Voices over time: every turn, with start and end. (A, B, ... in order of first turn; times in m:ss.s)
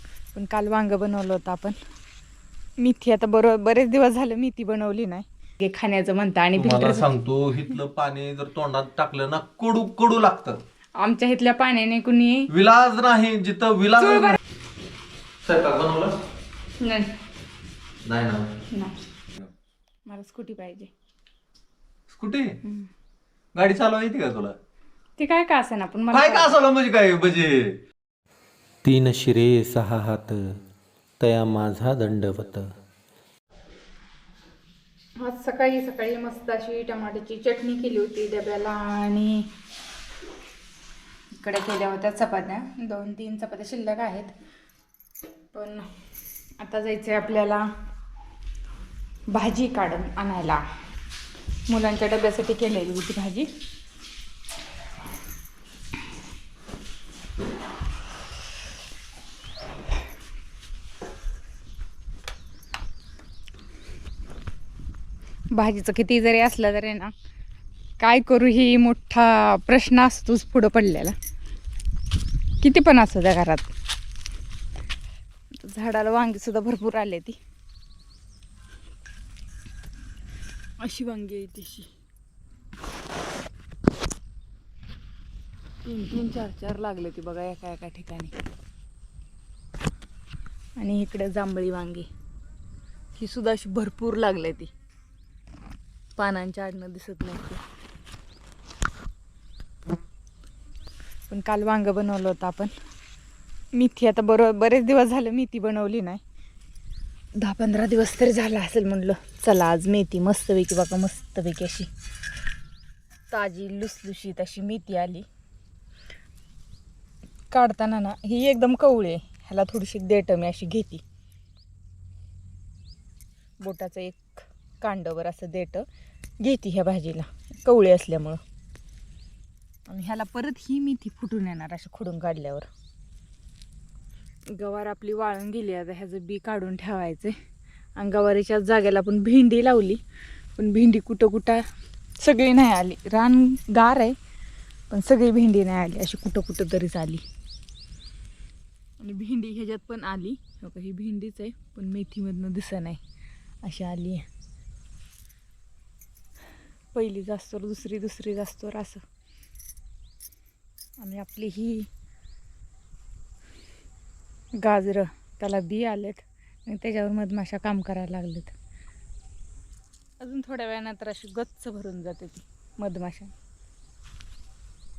0:00.4-0:01.8 A
0:02.8-0:07.1 A
0:06.6-0:10.6 B
0:11.0-0:12.5 A
0:12.5-0:14.4 B
0:14.0-0:14.4 A
0:15.4-0:16.1 B
0:16.8-0:17.1 A
0:18.1-0:18.5 B
0:20.1-0:20.9 A
0:22.1-0:22.6 B
0:23.6-0:24.6 B
0:25.2-0:26.5 A
0:26.1-0:27.8 B
0:28.8-0:30.4 C
0:31.2-0:32.5 C
0:35.2-0:39.5 A
0:41.4-0:44.3 A
0:45.5-0:45.9 A
0:46.6-0:47.7 A
0:49.3-0:50.6 A
0:51.7-0:53.5 A
1:05.5-1:07.1 A
1:08.0-1:11.2 A
1:12.6-1:13.7 A
1:15.6-1:17.4 A
1:20.8-1:21.9 A
1:25.8-1:28.3 A
1:30.8-1:32.1 A
1:33.2-1:34.7 A
1:36.2-1:37.6 A
1:41.3-1:42.7 A
1:43.7-1:46.2 A
1:47.4-1:51.9 A
1:53.3-1:55.3 A
1:57.5-2:01.0 A
2:03.6-2:05.8 A
2:06.4-2:08.4 A
2:09.9-2:12.7 A
2:14.5-2:17.3 A
2:18.0-2:20.0 A
2:20.6-2:21.6 A
2:22.2-2:24.2 A
2:24.9-2:27.2 A
2:29.0-2:33.0 A
2:33.6-2:34.3 A
2:36.9-2:39.0 A
2:41.0-2:41.9 A
2:44.6-2:48.6 A
2:50.2-2:53.3 A